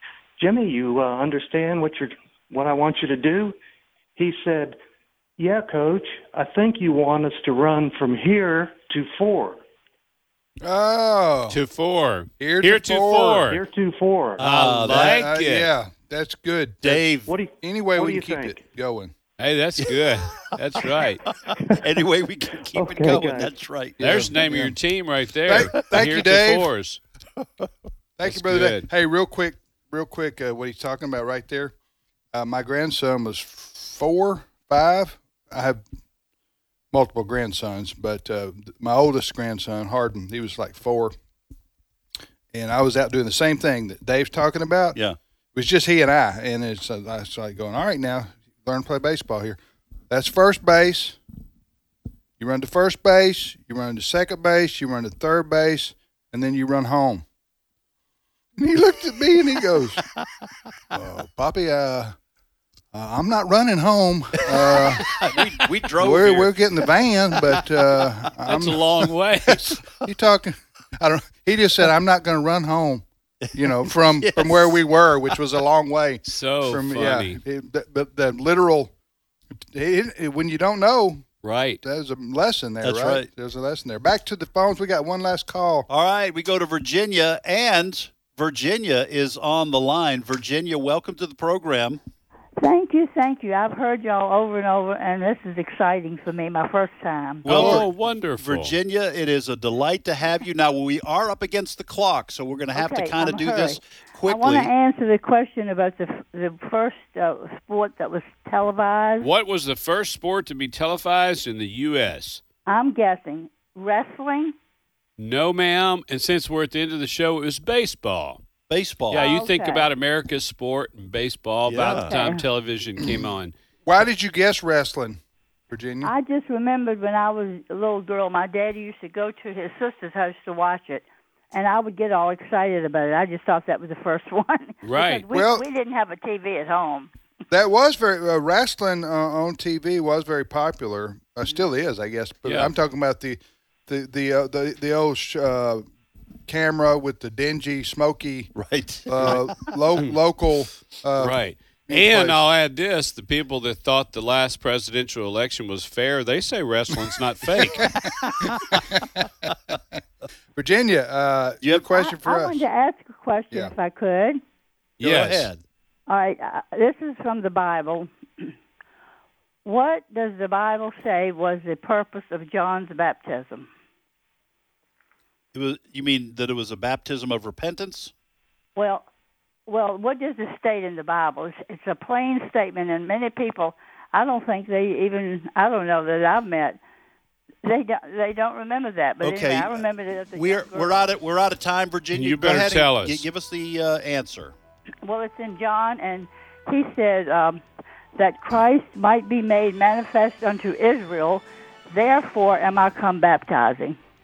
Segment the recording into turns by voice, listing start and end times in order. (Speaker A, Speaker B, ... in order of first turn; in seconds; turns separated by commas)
Speaker A: 0.4-3.6, Speaker A: 4.2-4.8, Speaker A: 5.4-9.6, Speaker B: 10.6-11.6, Speaker C: 11.5-13.6, Speaker B: 12.4-13.5, Speaker A: 13.5-14.4, Speaker D: 14.4-15.2, Speaker C: 14.4-15.7, Speaker B: 14.9-17.0, Speaker D: 16.8-17.4, Speaker A: 17.3-18.6, Speaker B: 17.6-19.1, Speaker C: 19.4-21.2, Speaker D: 19.8-24.4, Speaker A: 22.7-23.5, Speaker B: 24.0-24.8, Speaker C: 24.0-27.0, Speaker B: 25.5-26.7, Speaker B: 28.2-31.7, Speaker C: 28.2-28.9, Speaker B: 32.3-35.8, Speaker B: 36.9-41.1, Speaker B: 42.5-45.0, Speaker B: 45.5-49.6, Speaker B: 50.1-51.2, Speaker B: 52.4-57.2, Speaker B: 58.6-60.0, Speaker B: 60.9-62.1, Speaker B: 62.9-65.3, Speaker D: 64.5-68.0, Speaker B: 66.0-78.9, Speaker C: 68.5-69.8, Speaker D: 73.5-74.8, Speaker C: 76.2-77.4, Speaker B: 79.6-81.2, Speaker C: 81.4-81.8, Speaker B: 81.8-85.9, Speaker D: 82.8-83.3, Speaker D: 85.9-92.0, Speaker E: 92.6-97.8, Speaker C: 97.5-98.8, Speaker D: 97.5-104.7, Speaker E: 102.7-109.3, Speaker C: 109.2-112.4, Speaker E: 112.7-114.5, Speaker C: 115.2-118.4, Speaker D: 118.7-119.3, Speaker E: 119.1-119.9, Speaker C: 119.1-123.5, Speaker D: 121.7-122.1, Speaker E: 121.9-122.4, Speaker B: 123.0-123.3, Speaker B: 123.9-126.1, Speaker E: 126.0-137.1, Speaker C: 134.8-135.2, Speaker B: 135.3-135.7, Speaker B: 137.5-145.8, Speaker C: 142.4-142.7, Speaker B: 146.5-148.5, Speaker D: 148.6-149.6, Speaker B: 149.1-152.4, Speaker C: 151.2-157.9, Speaker B: 157.8-159.5, Speaker D: 158.3-158.8, Speaker B: 160.6-162.6, Speaker D: 161.6-162.0, Speaker E: 162.0-164.4, Speaker C: 165.0-165.5, Speaker D: 165.0-165.6, Speaker E: 166.1-168.5, Speaker E: 169.7-173.7, Speaker D: 175.5-178.1, Speaker E: 178.8-179.1, Speaker E: 179.7-186.8, Speaker E: 187.6-191.1, Speaker D: 189.2-194.6, Speaker C: 192.1-193.2, Speaker E: 195.0-197.6, Speaker E: 198.2-204.0